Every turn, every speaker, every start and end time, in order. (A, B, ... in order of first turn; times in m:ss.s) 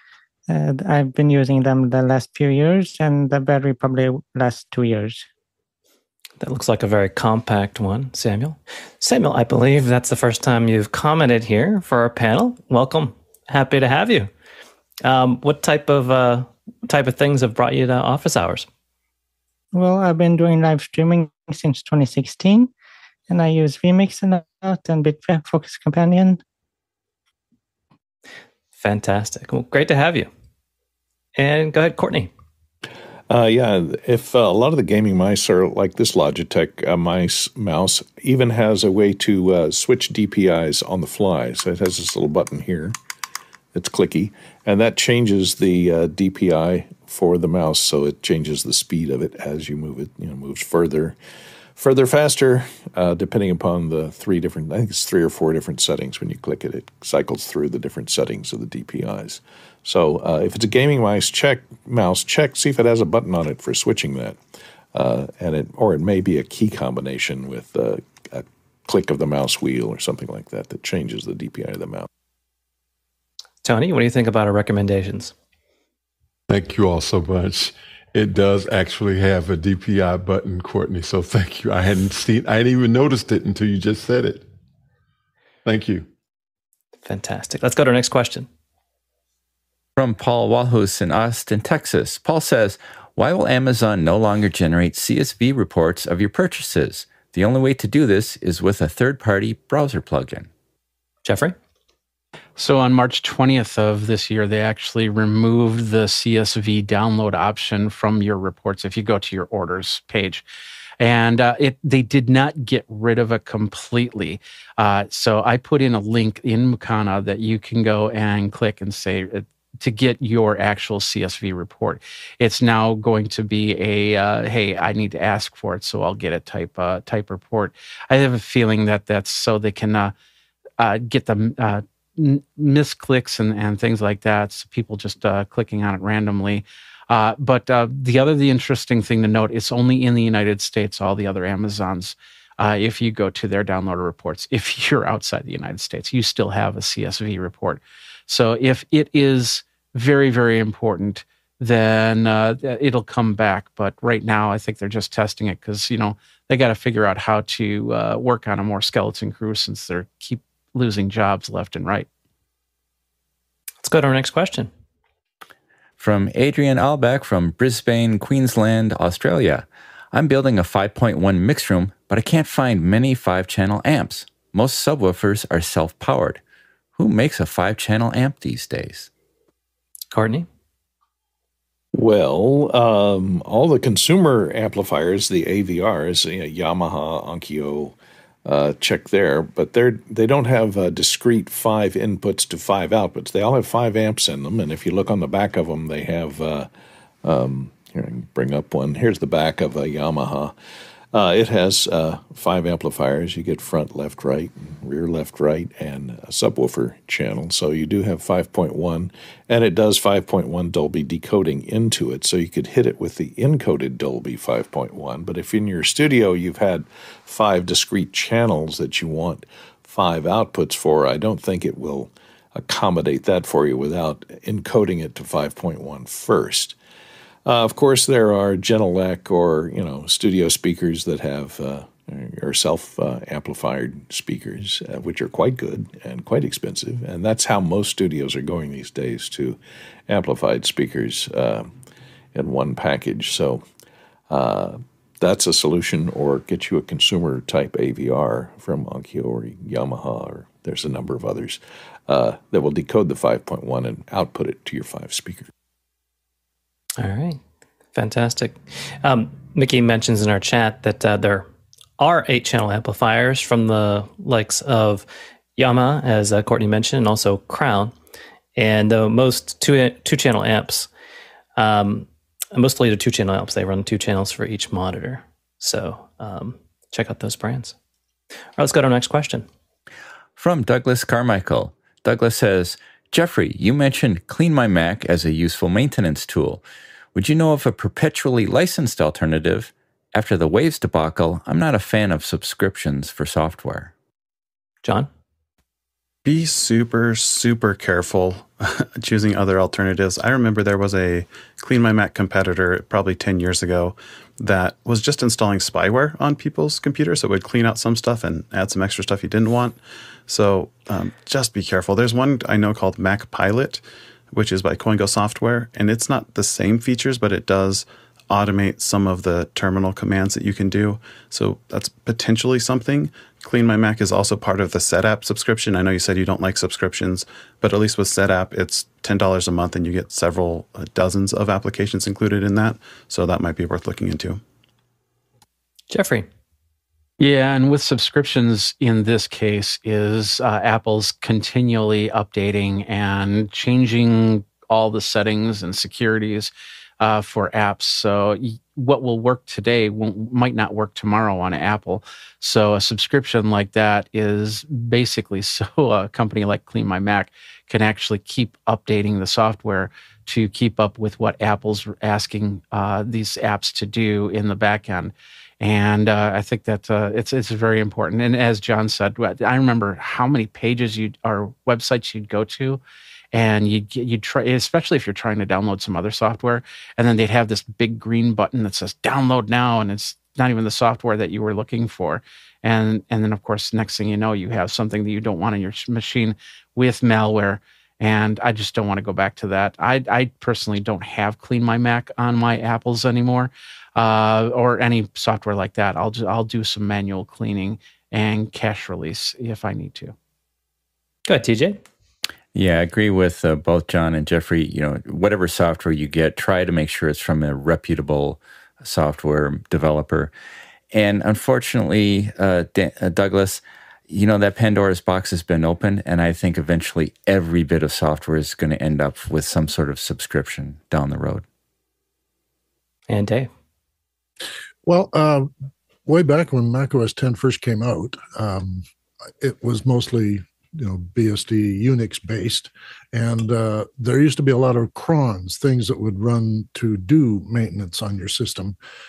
0:00.5-0:05.2 A
0:06.4-0:14.3 B
0:15.0-0:18.7 B
0:19.7-0:22.7 A
0:23.3-0:26.4 A
0:28.8-0:30.3 B
0:31.4-0:32.3 B
0:33.3-0:42.9 C
0:43.7-0:51.2 C
0:51.8-1:04.4 C
1:04.9-1:12.1 C
1:13.6-1:15.3 B
1:16.5-1:24.5 D
1:25.6-1:26.1 D
1:27.0-1:28.5 B
1:30.0-1:40.5 E
1:41.2-1:41.6 B
1:42.6-1:50.4 F
1:51.0-2:10.1 F
2:10.8-2:42.1 F
2:43.8-2:44.7 B
2:46.0-2:56.4 E
2:57.0-2:59.1 E
3:00.1-3:00.5 B
3:01.9-3:16.7 C
3:17.2-3:20.5 C
3:21.1-3:46.8 C
3:47.4-4:01.7 C
4:02.3-4:03.6 C
4:04.3-4:15.5 C
4:17.0-4:17.4 B
4:17.9-4:21.5 B
4:22.0-4:27.9 B
4:28.6-4:30.9 B
4:31.6-4:37.8 B
4:38.6-4:39.5 B
4:40.4-4:46.6 E
4:47.1-4:53.9 E
4:54.8-4:55.1 B
4:56.2-5:34.4 G
5:35.9-5:36.3 B
5:37.2-5:46.5 F
5:47.0-6:12.8 F
6:13.3-6:40.1 F
6:41.2-6:41.8 B
6:42.5-6:50.3 E
6:50.9-7:01.4 E
7:03.1-7:03.5 B
7:04.8-7:05.5 H
7:06.0-7:08.8 H
7:09.4-7:18.8 H